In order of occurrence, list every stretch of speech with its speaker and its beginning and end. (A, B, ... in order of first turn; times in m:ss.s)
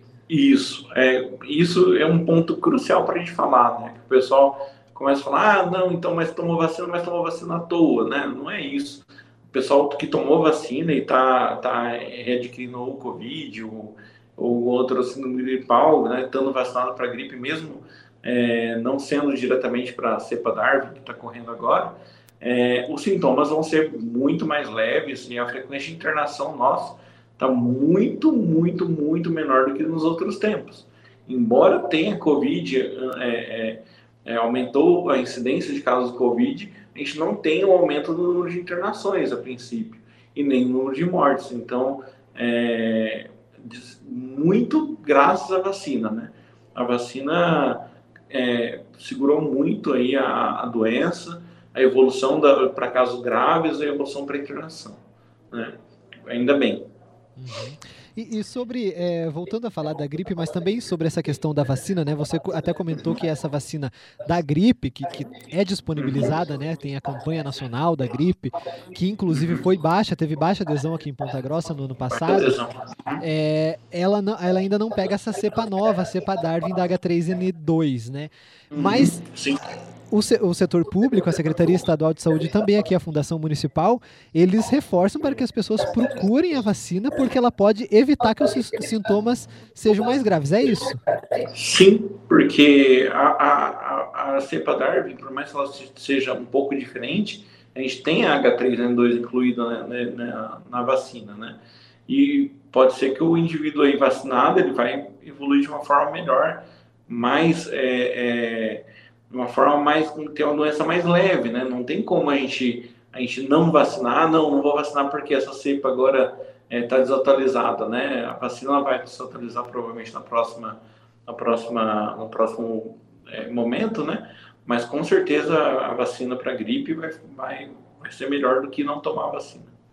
0:00.3-0:55.0 A
0:56.3-0:56.8 A
0:57.4-1:12.5 B
1:06.0-1:06.3 A
1:09.3-1:09.6 A
1:12.1-1:13.2 A
1:13.2-1:19.2 B
1:18.7-1:19.6 A
1:20.1-1:31.0 B
1:31.5-2:09.7 A